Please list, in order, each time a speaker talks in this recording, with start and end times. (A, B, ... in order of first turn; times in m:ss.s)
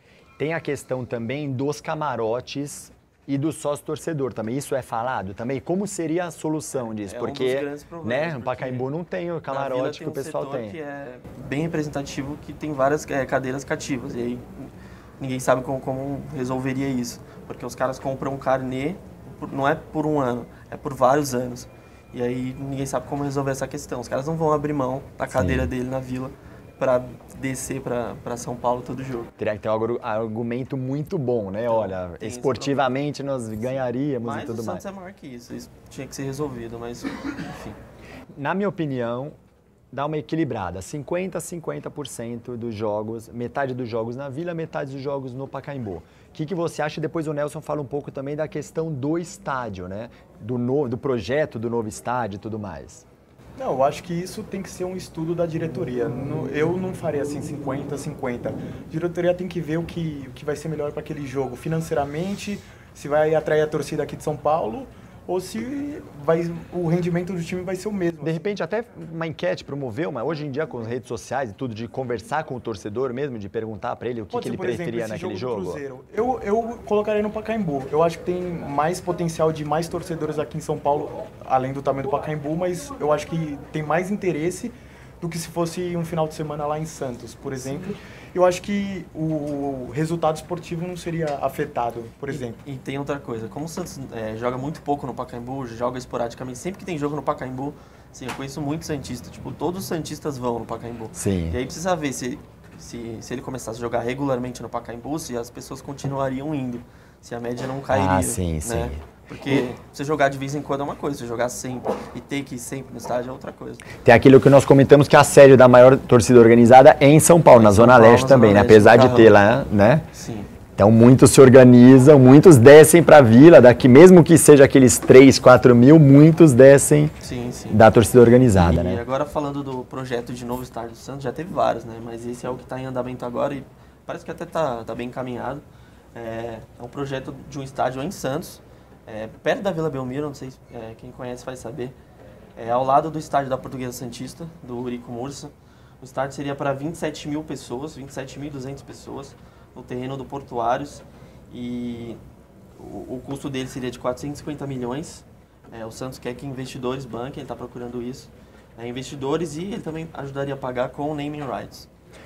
0:00.4-0:10.8 A
0:06.8-0:08.9 B
0:09.5-0:29.3 B
0:25.3-0:25.7 A
0:29.4-0:34.8 A
0:31.6-0:32.9 B
0:33.7-0:37.8 B
0:38.4-0:39.4 A
0:39.9-0:53.0 A
0:53.6-1:08.4 C
1:08.2-1:15.8 A
1:14.3-1:32.6 C
1:32.3-1:53.8 B
1:41.1-1:41.6 A
1:47.9-1:49.0 A
1:54.0-2:00.0 A
1:57.5-1:59.4 B
2:00.1-2:00.5 B
2:00.8-2:07.1 A
2:07.2-2:07.8 B
2:07.7-2:09.0 A
2:08.5-2:21.9 B
2:22.6-2:32.2 B
2:32.8-2:41.9 B